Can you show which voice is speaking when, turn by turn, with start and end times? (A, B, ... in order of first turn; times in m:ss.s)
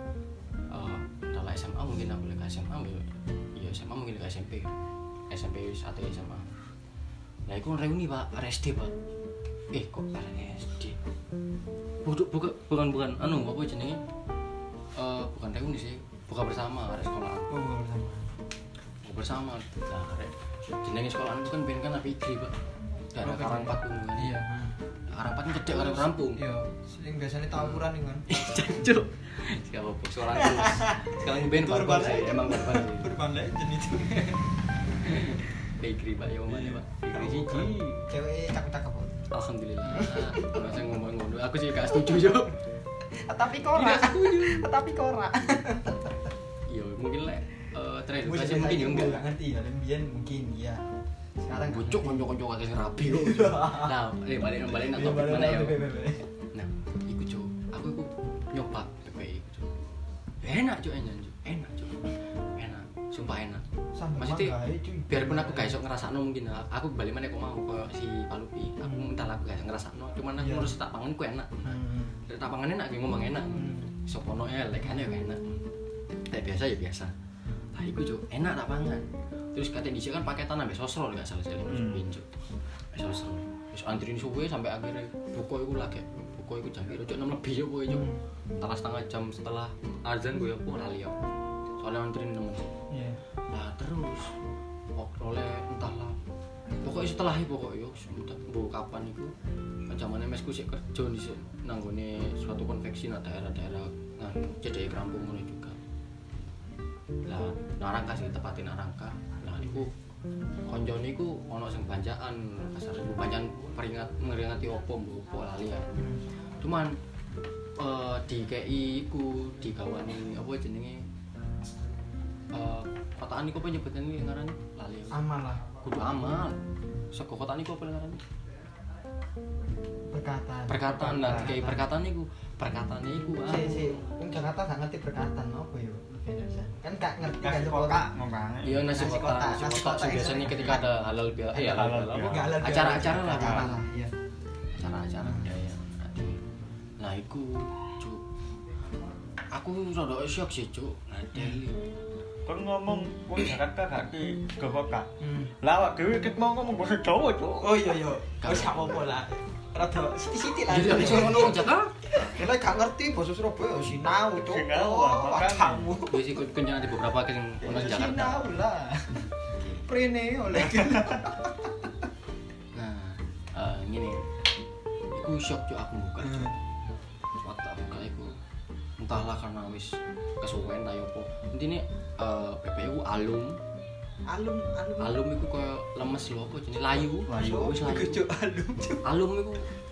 0:00.7-0:04.7 A
0:05.3-0:06.5 A
0:07.5-0:08.9 A
0:09.7-0:11.0 A
0:12.0-0:14.0 A
0:15.0-0:17.5 A
0:17.5-0:18.3 B
0:19.0-0:22.6 A
0:23.1-0:24.4 A
0:23.2-0:24.8 B
0:25.1-0:26.4 A
0:25.6-0:28.3 B
0:27.6-0:33.1 A
0:30.4-0:34.5 B
0:35.0-0:38.0 A
0:35.1-0:35.4 B
0:36.5-0:39.2 B
0:39.3-0:42.6 A
0:39.8-0:40.9 B
0:41.8-0:42.4 B
0:43.3-0:46.3 B
0:43.7-0:44.6 A
0:46.7-0:49.2 A
0:48.2-0:50.8 B
0:51.4-0:52.3 B
0:51.5-0:55.9 A
0:53.0-0:54.0 B
0:54.7-0:56.2 B
0:56.5-0:59.7 A
1:00.4-1:03.6 A
1:04.0-1:05.8 B
1:04.2-1:04.6 A
1:05.1-1:15.6 A
1:08.8-1:09.1 B
1:10.4-1:10.8 B
1:11.6-1:12.2 B
1:13.5-1:14.0 B
1:16.3-1:17.1 A
1:17.7-1:22.4 A
1:21.7-1:22.1 C
1:22.9-1:31.2 A
1:27.9-1:28.2 B
1:31.8-1:32.7 A
1:32.9-1:33.2 B
1:33.5-1:34.3 A
1:35.0-1:36.2 A
1:36.8-1:39.3 A
1:39.9-1:45.8 A
1:47.3-1:49.9 A
1:50.7-1:56.0 A
1:56.0-1:56.3 B
1:56.6-1:57.0 A
1:57.8-2:01.0 A
2:02.5-2:05.2 A
2:05.1-2:06.4 B
2:05.8-2:06.6 A
2:07.1-2:08.2 A
2:10.1-2:11.9 B
2:10.7-2:14.0 A
2:11.0-2:11.5 C
2:13.5-2:18.1 B
2:17.4-2:18.9 C
2:18.6-2:23.8 A
2:18.9-2:21.0 B
2:21.5-2:24.1 B
2:21.6-2:22.6 C
2:23.3-2:23.7 C
2:24.8-2:26.4 A
2:25.2-2:25.5 B
2:27.0-2:28.2 A
2:29.5-2:31.8 A
2:31.3-2:31.6 B
2:32.5-2:35.1 C
2:35.2-2:35.6 B
2:35.6-2:37.8 C
2:37.6-2:46.3 B
2:38.4-2:38.9 A
2:40.7-2:42.1 A
2:44.4-2:45.9 C
2:46.1-2:48.5 A
2:47.6-2:49.2 B
2:49.4-2:49.8 A
2:49.8-2:51.9 B
2:50.8-2:51.2 C
2:52.7-2:54.3 A
2:55.1-2:56.6 A
2:56.2-2:56.5 B
2:57.4-2:58.3 A
2:59.0-3:03.6 A
3:04.3-3:05.2 B
3:05.0-3:08.2 A
3:07.3-3:07.7 C
3:07.3-3:09.0 B
3:09.0-3:09.7 A